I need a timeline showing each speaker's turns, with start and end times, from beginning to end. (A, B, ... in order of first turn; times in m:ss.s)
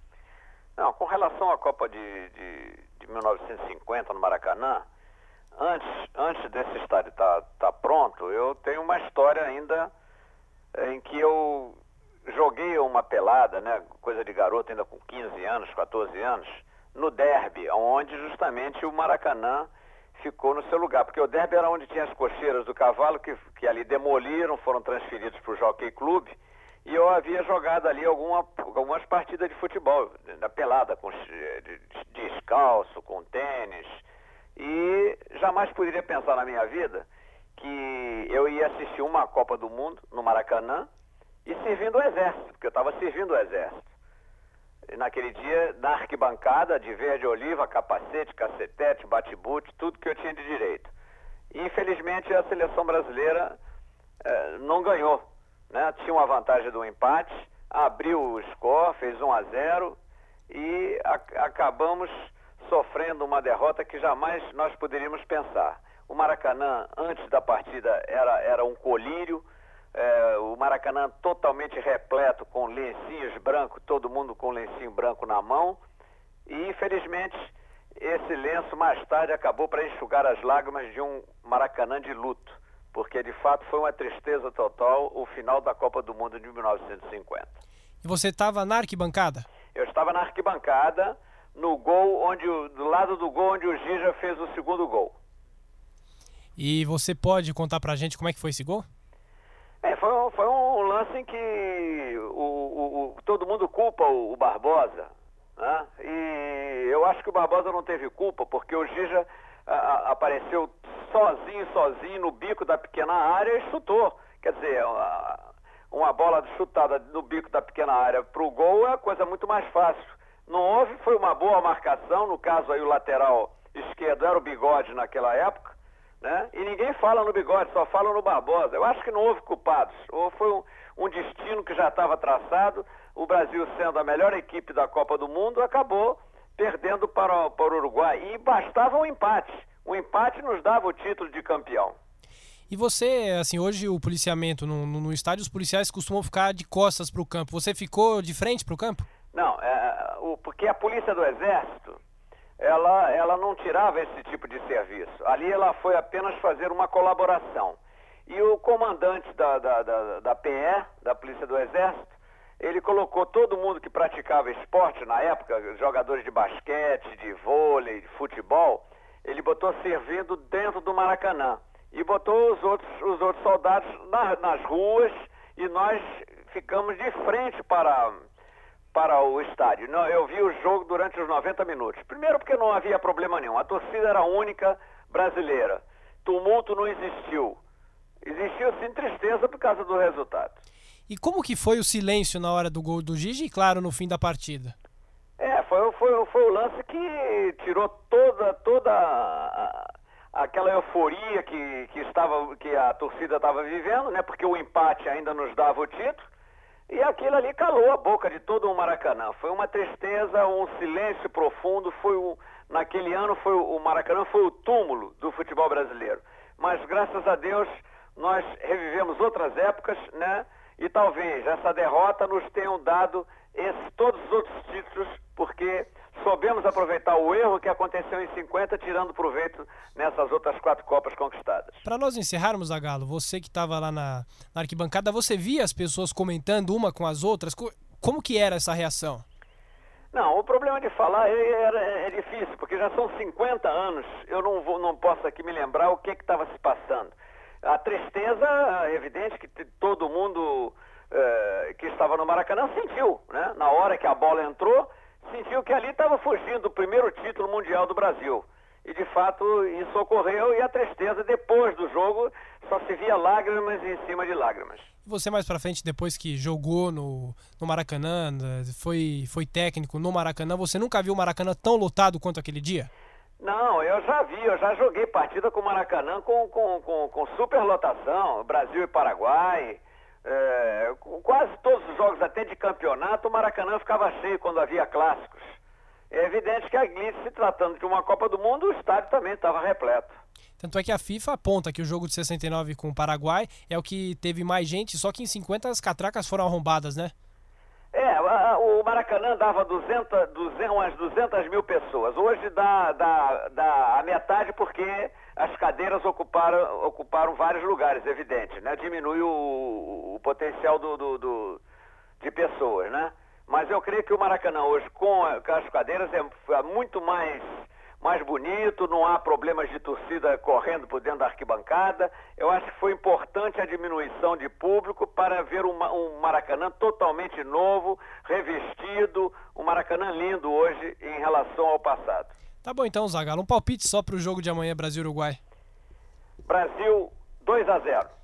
0:00.8-0:04.8 A
0:05.6-0:09.9 A
0:10.7-0:34.0 A
0:34.6-0:40.9 A
0:41.4-0:43.9 A
0:44.9-0:50.9 A
0:51.5-0:53.6 A
0:54.2-1:00.0 A
1:00.5-1:15.8 A
1:16.5-1:27.6 A
1:28.0-1:29.5 B
1:29.7-1:35.1 A
1:36.6-1:38.8 B
1:39.8-2:22.0 A
2:22.7-2:29.0 B
2:29.3-2:32.0 A
2:32.6-2:58.2 A
2:58.9-3:07.6 A
3:08.2-3:10.6 A
3:11.1-3:14.7 B
3:15.4-3:26.3 A
3:26.9-3:51.8 A
3:51.8-3:59.2 B
4:00.1-4:24.9 A
4:25.0-4:32.9 B
4:33.4-4:45.6 A
4:46.1-4:50.2 A
4:50.6-4:57.1 B
4:57.9-5:11.6 A
5:12.2-5:32.3 A
5:32.6-5:35.4 B
5:36.4-5:38.1 A